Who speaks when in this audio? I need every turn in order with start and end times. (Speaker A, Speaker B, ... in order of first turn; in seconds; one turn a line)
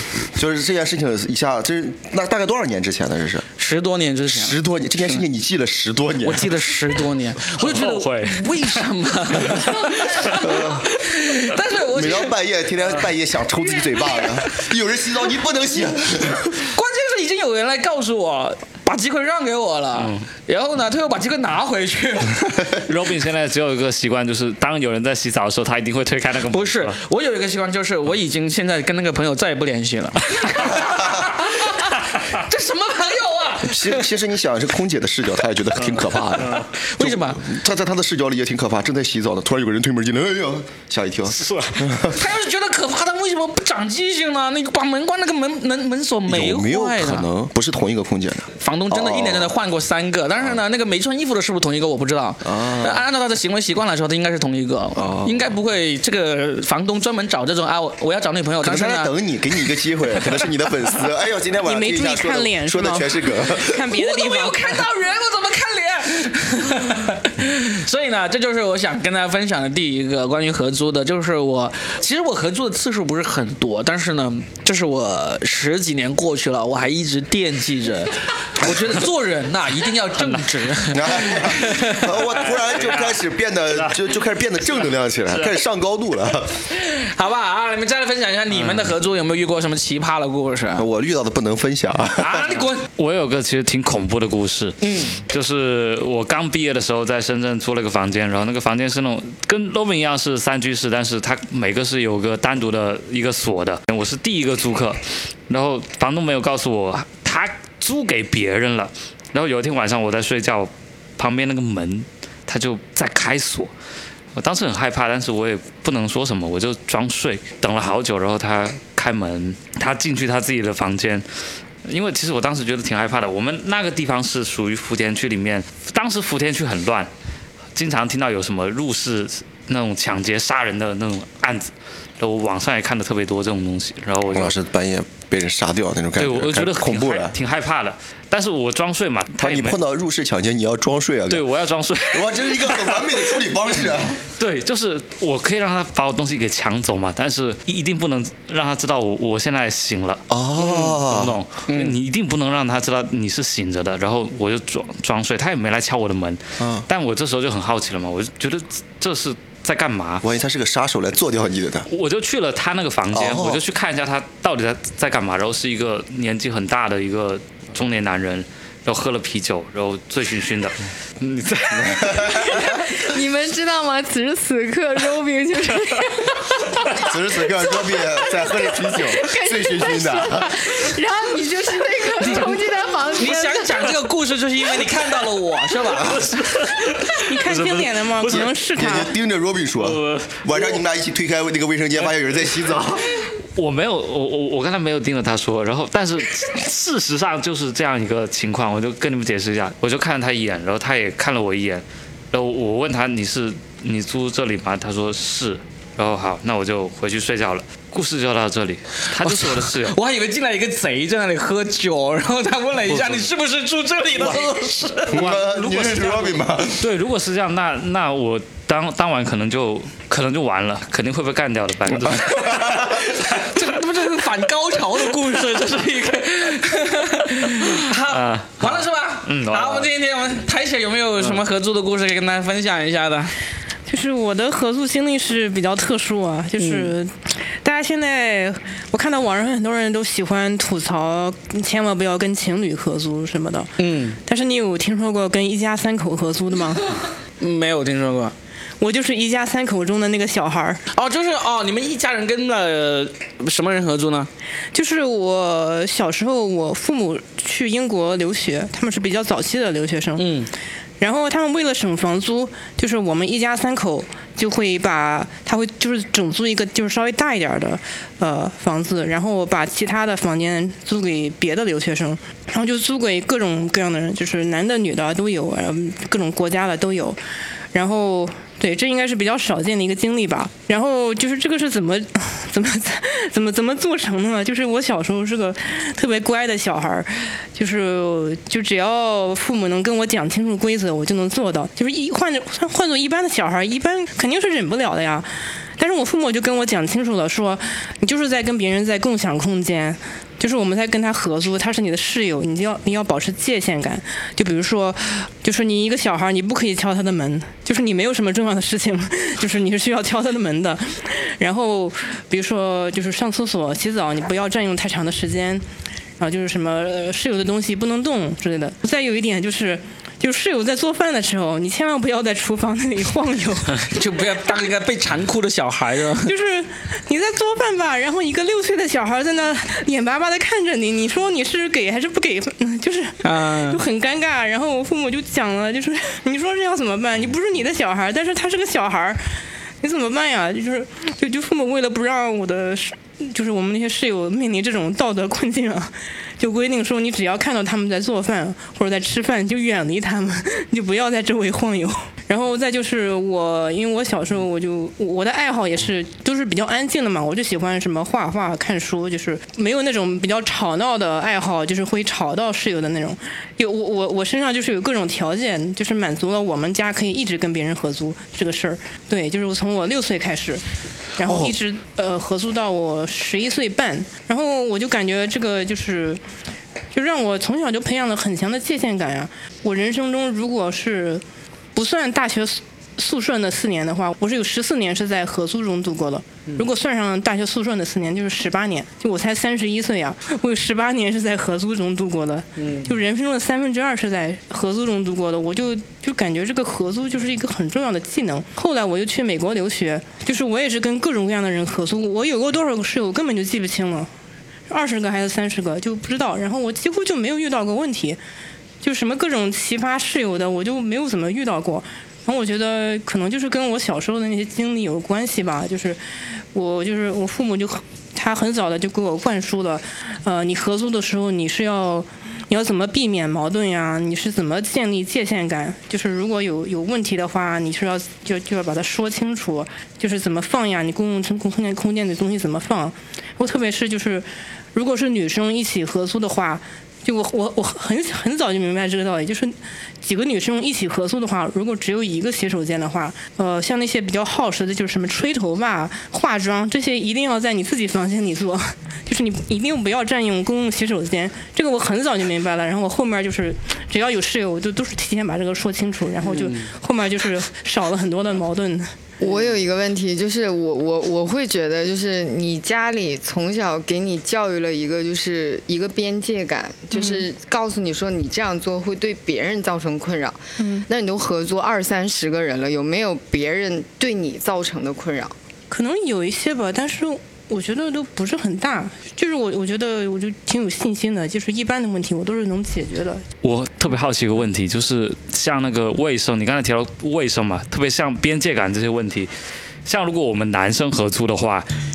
Speaker A: 0.3-3.5
Speaker B: 3.6-4.6
Speaker A: 4.3-6.5
Speaker B: 6.2-12.3
Speaker C: 7.6-8.9
Speaker A: 10.3-10.9
Speaker A: 11.9-16.6
Speaker B: 16.6-22.4
Speaker C: 20.0-20.3
Speaker C: 22.9-27.0
Speaker B: 26.5-34.0
Speaker A: 33.6-42.2
Speaker B: 36.5-37.5
Speaker C: 41.4-41.8
Speaker B: 42.0-47.3
Speaker A: 46.3-49.5
Speaker B: 48.6-59.1
Speaker A: 52.4-53.0
Speaker A: 55.0-55.4
Speaker A: 58.6-63.9
Speaker D: 61.7-64.8
Speaker B: 63.9-82.2
Speaker C: 80.2-80.6
Speaker A: 80.9-86.7
Speaker C: 82.3-84.0
Speaker B: 86.7-90.8
Speaker A: 90.8-92.5
Speaker B: 92.2-92.9
Speaker C: 92.9-113.7
Speaker B: 94.8-95.2
Speaker C: 114.3-121.2
Speaker C: 121.8-127.1
Speaker C: 127.8-134.6
Speaker A: 134.3-137.3
Speaker C: 136.2-139.8
Speaker A: 139.4-141.5
Speaker C: 141.3-143.2
Speaker A: 142.1-144.2
Speaker C: 144.4-160.3
Speaker A: 150.3-151.8
Speaker A: 156.6-156.9
Speaker A: 160.2-161.9
Speaker C: 161.9-172.5
Speaker A: 163.1-163.6
Speaker A: 171.8-172.6
Speaker E: 172.4-183.9
Speaker A: 177.0-180.7
Speaker B: 183.2-186.3
Speaker C: 185.9-188.5
Speaker D: 187.2-189.1
Speaker A: 188.3-193.2
Speaker C: 189.8-190.8
Speaker C: 193.6-210.0
Speaker B: 209.2-215.2
Speaker C: 215.0-222.8
Speaker A: 215.1-216.9
Speaker A: 222.0-223.0
Speaker B: 223.1-233.3
Speaker C: 228.1-229.9
Speaker D: 233.9-243.7
Speaker B: 236.6-236.9
Speaker B: 243.8-244.2
Speaker D: 244.2-247.0
Speaker B: 247.4-248.3
Speaker D: 248.8-250.8
Speaker B: 250.9-254.3
Speaker D: 254.7-260.3
Speaker B: 260.2-260.5
Speaker D: 261.0-277.2
Speaker D: 277.7-315.6
Speaker D: 316.2-323.9
Speaker B: 323.9-326.3
Speaker D: 326.2-339.2
Speaker B: 333.2-333.8
Speaker D: 339.8-370.6
Speaker D: 371.2-376.2
Speaker B: 371.3-371.5
Speaker D: 376.9-381.2
Speaker D: 381.8-404.1
Speaker B: 392.6-392.9
Speaker D: 404.7-408.2
Speaker D: 408.8-416.0
Speaker D: 416.5-458.9
Speaker E: 459.2-475.3
Speaker D: 466.9-467.3
Speaker D: 470.6-470.9
Speaker D: 475.7-483.2
Speaker C: 483.4-489.3
Speaker C: 489.9-491.7